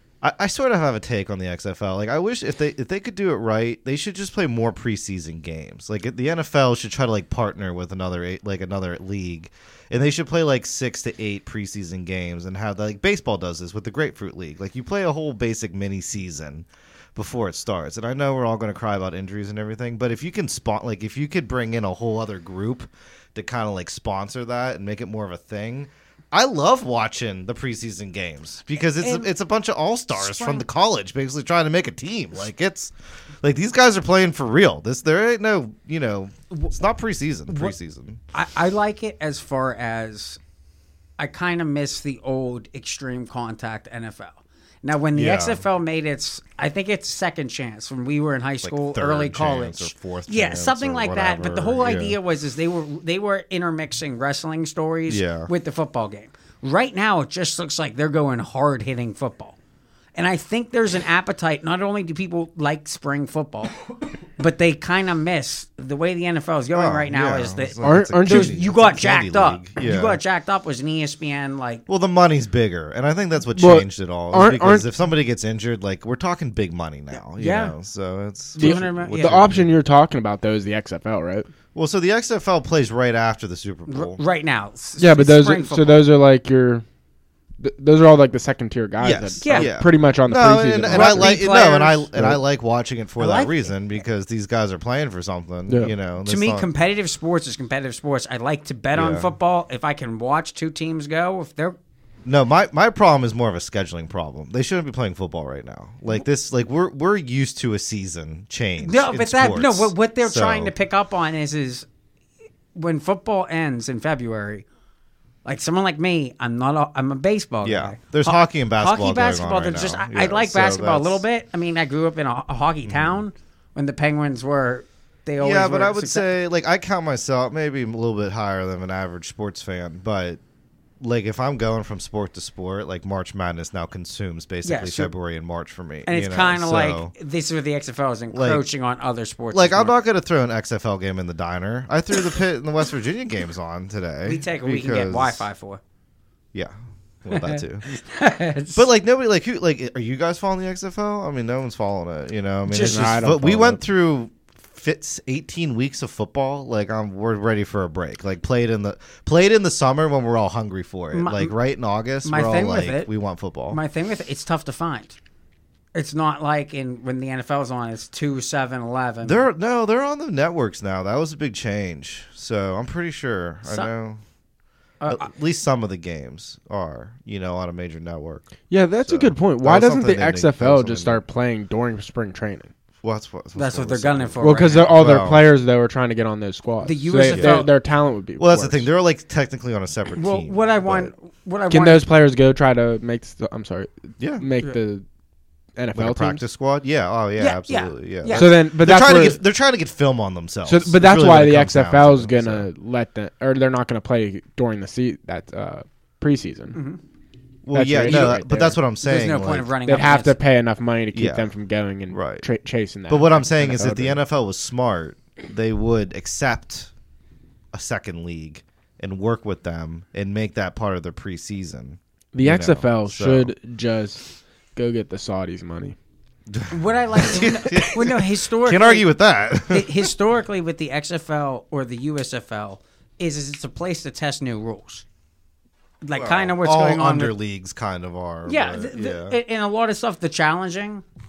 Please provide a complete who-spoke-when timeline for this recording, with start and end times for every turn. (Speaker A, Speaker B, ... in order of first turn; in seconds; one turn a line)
Speaker A: 0.2-38.2
Speaker B: 28.8-29.3
Speaker B: 30.1-30.6
Speaker B: 37.5-37.7
Speaker B: 38.3-40.4
Speaker B: 41.2-59.5
Speaker A: 45.1-45.6
Speaker A: 48.6-52.2
Speaker A: 55.1-55.5
Speaker B: 60.1-63.7
Speaker B: 64.4-71.8
Speaker A: 66.7-70.2
Speaker C: 67.8-68.6
Speaker A: 71.9-79.7
Speaker C: 73.5-74.9
Speaker B: 77.1-77.7
Speaker B: 78.5-79.4
Speaker C: 78.6-81.5
Speaker A: 81.7-84.2
Speaker B: 83.9-86.0
Speaker C: 85.0-86.8
Speaker C: 87.6-91.4
Speaker A: 89.0-96.7
Speaker B: 89.4-89.7
Speaker B: 90.9-92.1
Speaker C: 92.1-92.4
Speaker B: 93.2-93.7
Speaker B: 96.2-101.8
Speaker A: 98.9-99.3
Speaker A: 102.2-110.7
Speaker B: 108.8-111.8
Speaker B: 112.7-114.6
Speaker B: 115.4-126.3
Speaker A: 117.6-121.2
Speaker A: 122.8-123.2
Speaker A: 125.4-130.4
Speaker A: 131.0-137.1
Speaker B: 134.6-135.1
Speaker B: 136.1-139.9
Speaker A: 138.3-138.6
Speaker A: 139.5-145.4
Speaker B: 144.2-145.8
Speaker A: 147.2-147.8
Speaker B: 147.3-148.9
Speaker A: 148.7-163.8
Speaker B: 152.7-153.1
Speaker C: 152.7-153.8
Speaker B: 161.1-161.5
Speaker B: 162.2-163.1
Speaker B: 163.7-165.2
Speaker B: 165.9-169.4
Speaker A: 169.2-174.2
Speaker B: 173.6-173.9
Speaker B: 175.0-175.3
Speaker A: 175.1-181.2
Speaker C: 178.7-182.7
Speaker A: 183.0-185.5
Speaker B: 183.6-185.0
Speaker C: 184.4-188.9
Speaker B: 186.8-187.7
Speaker A: 187.3-187.7
Speaker A: 188.4-191.1
Speaker B: 190.2-192.0
Speaker C: 191.7-195.0
Speaker A: 194.2-194.5
Speaker C: 195.8-196.4
Speaker A: 195.9-202.7
Speaker B: 197.4-198.5
Speaker C: 198.3-199.4
Speaker C: 200.6-206.8
Speaker B: 206.7-207.0
Speaker A: 207.6-209.8
Speaker C: 207.7-208.8
Speaker B: 208.1-208.3
Speaker B: 209.0-210.4
Speaker C: 209.8-214.2
Speaker A: 211.1-211.5
Speaker A: 212.1-212.4
Speaker A: 213.1-216.9
Speaker A: 217.7-223.5
Speaker C: 222.3-225.9
Speaker A: 226.5-230.1
Speaker B: 226.7-229.1
Speaker B: 229.7-235.0
Speaker B: 236.0-237.3
Speaker A: 236.1-239.4
Speaker B: 238.4-241.0